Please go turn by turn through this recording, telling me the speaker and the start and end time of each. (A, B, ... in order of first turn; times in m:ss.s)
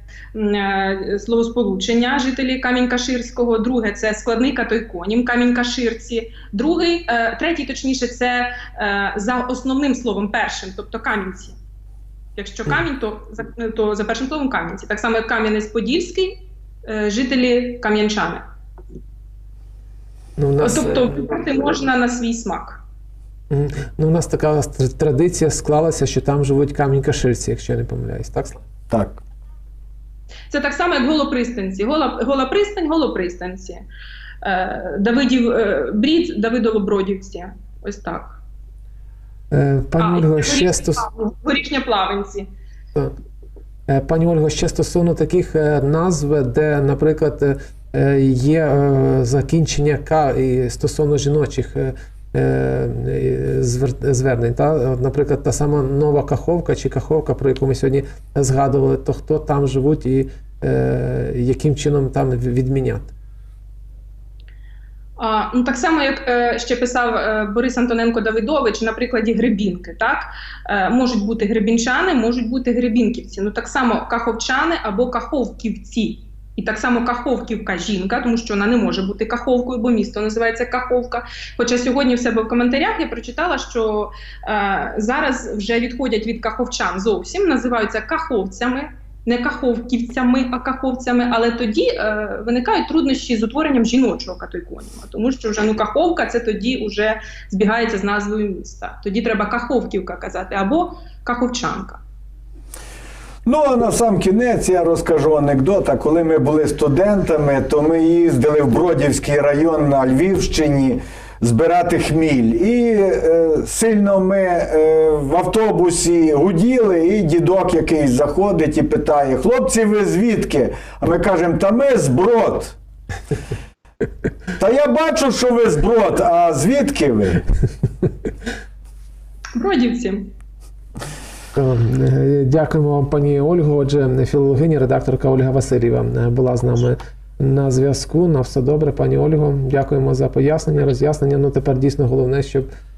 0:00.3-0:11.6 A
0:12.4-0:18.4 A
0:20.4-0:21.1 B
0:20.6-0:22.8 A
0:23.5-0:28.6 B
0:28.9-0:29.2 C
0:30.5-0:33.8 A
0:34.4-0:38.4 A
0:39.5-0:41.0 B
0:40.0-0:42.5 A
0:43.9-1:03.1 B
1:05.2-1:42.0 A
1:43.4-2:02.8 C
2:04.6-2:07.4 C
2:09.5-2:10.3 A
2:11.5-2:22.6 B